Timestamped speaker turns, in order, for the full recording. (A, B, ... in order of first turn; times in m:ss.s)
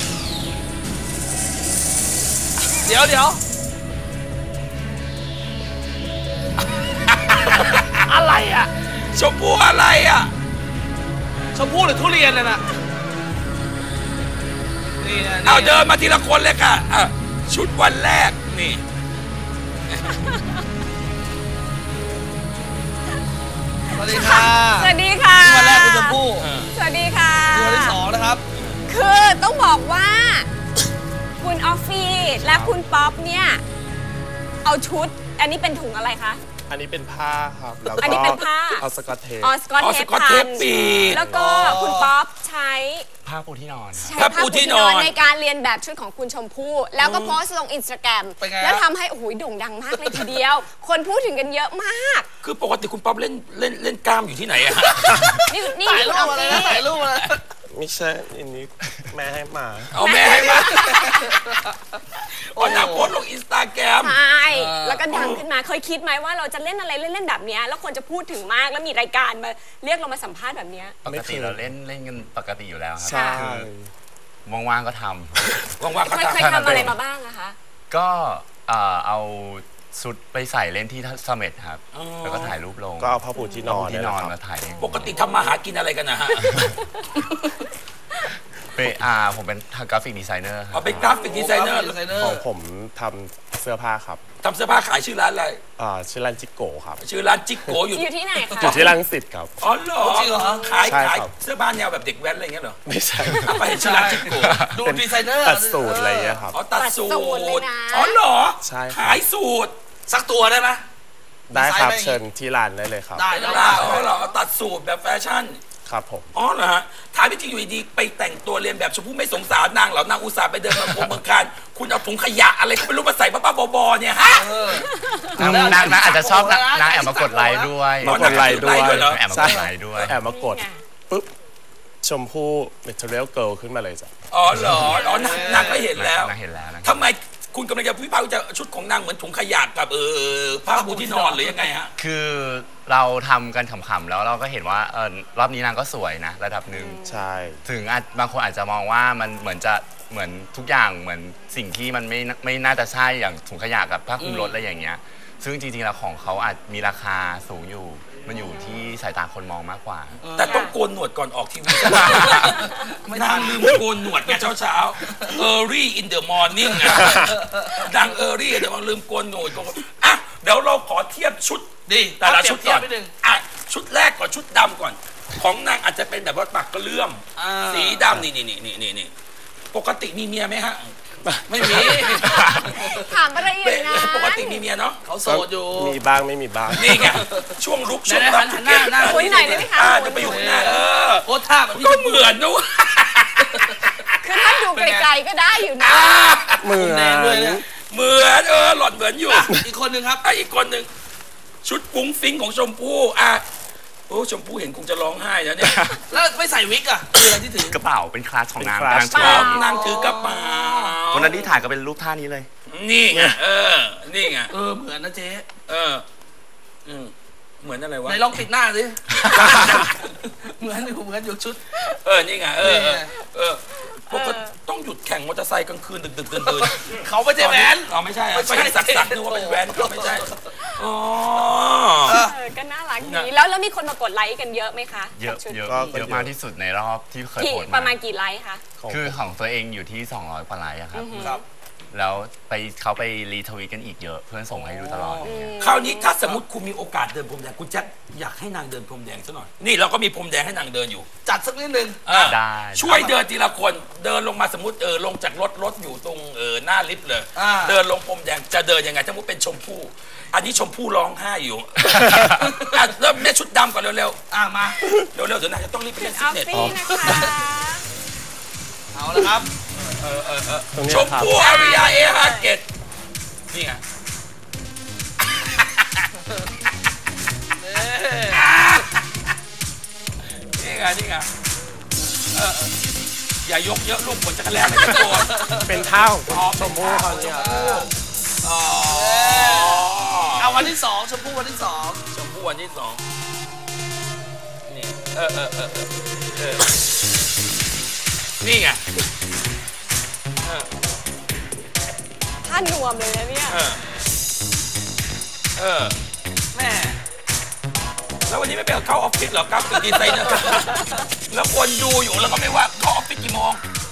0:02.8-0:03.4 A
0:07.1-0:07.8 B
0:08.0-0:08.7 A
0:09.1-0:10.3 B
0:11.5-0:12.6 A
0:15.0-0:15.8 A
0:15.4-0:18.8 B
0:19.9-0:20.2 B
0:20.1-0:20.4 C
0:23.9-0:28.0 C
0:23.9-0:26.5 A
0:26.4-0:26.7 B
0:27.5-0:28.4 A
0:28.5-0:28.8 B
0:28.9-0:30.5 C
0:31.4-0:33.6 C
0:32.4-0:32.7 D
0:34.6-0:36.4 C
0:36.7-0:39.5 D
0:38.0-0:38.8 C
0:39.4-0:43.1 C
0:39.8-0:41.3 B
0:40.5-0:41.8 D
0:41.4-0:42.1 A
0:43.2-0:44.2 E
0:43.9-0:52.3 C
0:44.2-0:45.2 B
0:47.0-0:47.4 B
0:48.4-0:48.8 A
0:52.4-0:55.4 B
0:55.5-0:56.8 C
0:55.8-0:57.4 A
0:57.7-1:00.0 D
0:59.9-1:01.0 B
1:00.0-1:01.4 C
1:02.5-1:03.2 A
1:02.5-1:04.2 B
1:04.0-1:11.0 C
1:04.6-1:05.1 A
1:05.1-1:05.4 B
1:11.0-1:11.7 D
1:11.0-1:13.6 E
1:13.0-1:13.4 C
1:13.1-1:13.9 D
1:13.4-1:13.6 B
1:14.4-1:15.5 E
1:15.8-1:16.9 B
1:16.0-1:17.6 C
1:16.3-1:17.0 E
1:17.9-1:25.2 E
1:21.9-1:22.5 B
1:23.0-1:24.4 D
1:23.3-1:23.6 C
1:24.8-1:26.6 B
1:28.7-1:31.0 E
1:30.7-1:32.0 B
1:30.8-1:31.3 D
1:31.1-1:31.5 C
1:31.3-1:32.4 A
1:32.0-1:34.2 D
1:34.4-1:35.6 B
1:35.8-1:37.0 D
1:37.0-1:38.1 B
1:37.9-1:38.9 C
1:38.6-1:39.5 D
1:38.6-1:38.9 B
1:39.6-1:42.8 B
1:40.0-1:40.7 A
1:40.7-1:41.3 D
1:42.8-1:43.8 D
1:43.3-1:44.6 B
1:43.8-1:46.3 A
1:44.3-1:44.7 E
1:44.8-1:46.6 D
1:46.5-1:49.8 B
1:46.7-1:48.2 C
1:48.6-1:49.2 D
1:50.1-1:50.8 A
1:51.5-1:54.0 D
1:51.5-1:52.2 A
1:53.2-1:54.1 A
1:53.3-1:55.6 B
1:53.3-1:54.3 C
1:55.8-1:56.3 D
1:56.3-2:04.8 B
2:04.2-2:04.9 A
2:04.9-2:05.2 C
2:05.3-2:10.2 E
2:05.4-2:06.0 D
2:05.4-2:07.8 A
2:08.0-2:11.3 D
2:08.0-2:09.2 B
2:10.2-2:10.8 C
2:12.0-2:14.1 D
2:14.3-2:21.9 B
2:14.6-2:15.0 E
2:14.9-2:15.6 C
2:15.1-2:15.9 A
2:15.9-2:17.1 E
2:20.6-2:21.7 A
2:22.0-2:27.0 E
2:26.7-2:27.2 C
2:27.0-2:27.6 D
2:27.6-2:40.2 E
2:34.2-2:34.5 B
2:40.3-2:59.1 B
2:40.4-2:40.7 C
2:42.2-2:44.4 A
2:47.2-2:47.7 A
2:51.8-2:53.1 A
2:57.4-2:58.1 A
2:59.7-3:00.9 B
3:01.2-3:02.6 D
3:01.5-3:02.7 B
3:01.6-3:03.1 A
3:02.7-3:04.6 C
3:03.4-3:05.0 B
3:05.0-3:06.0 A
3:05.2-3:07.2 D
3:06.7-3:14.6 B
3:08.0-3:09.6 A
3:09.0-3:10.7 C
3:10.2-3:12.4 A
3:14.2-3:16.1 C
3:14.7-3:15.1 A
3:15.8-3:16.6 B
3:16.6-3:17.6 D
3:16.6-3:17.6 A
3:17.8-3:19.5 B
3:19.3-3:20.2 A
3:20.2-3:20.9 B
3:21.6-3:23.4 B
3:24.1-3:26.0 B
3:25.6-3:26.0 E
3:26.1-3:27.8 A
3:27.3-3:29.6 E
3:28.6-3:29.5 D
3:29.0-3:29.9 C
3:29.2-3:31.5 B
3:29.6-3:31.0 A
3:31.1-3:32.5 E
3:32.7-3:34.5 B
3:33.1-3:33.4 D
3:34.5-3:35.5 A
3:35.6-3:36.0 B
3:36.8-3:38.3 B
3:38.0-3:41.6 A
3:39.3-3:40.0 B
3:41.8-3:52.2 B
3:42.6-3:43.1 A
3:44.1-3:44.5 C
3:46.4-3:50.4 A
3:52.1-3:55.7 C
3:52.1-3:52.3 A
3:53.0-3:53.3 B
3:55.1-3:58.0 E
3:55.6-3:56.3 D
3:57.4-3:58.6 C
3:58.8-3:59.2 D
3:58.9-4:01.4 E
4:00.9-4:01.4 C
4:01.2-4:01.4 A
4:01.9-4:05.6 E
4:04.5-4:05.3 A
4:05.2-4:06.2 C
4:05.6-4:11.1 B
4:11.2-4:12.3 A
4:12.0-4:24.2 B
4:12.1-4:13.1 E
4:17.3-4:17.8 A
4:21.9-4:22.3 E
4:24.3-4:24.8 A
4:25.0-4:26.8 B
4:26.0-4:27.8 C
4:26.5-4:27.3 D
4:28.9-4:29.5 A
4:29.8-4:32.6 B
4:30.7-4:31.4 D
4:31.4-4:32.5 C
4:33.5-4:33.8 B
4:35.4-4:35.8 B
4:37.6-4:38.4 A
4:38.3-4:39.3 B
4:40.4-4:41.3 B
4:42.3-4:42.7 B
4:43.4-4:45.4 B
4:45.2-4:45.6 A
4:45.5-4:47.9 D
4:46.3-4:47.9 B
4:47.1-4:47.8 A
4:48.4-4:50.7 B
4:48.9-4:52.0 A
4:52.1-4:53.0 B
4:54.7-4:56.7 B
4:58.4-4:58.9 B
5:00.4-5:00.7 B
5:02.4-5:03.6 C
5:03.5-5:03.8 B
5:05.6-5:06.0 B
5:06.5-5:07.0 A
5:08.3-5:10.7 B
5:11.3-5:13.6 B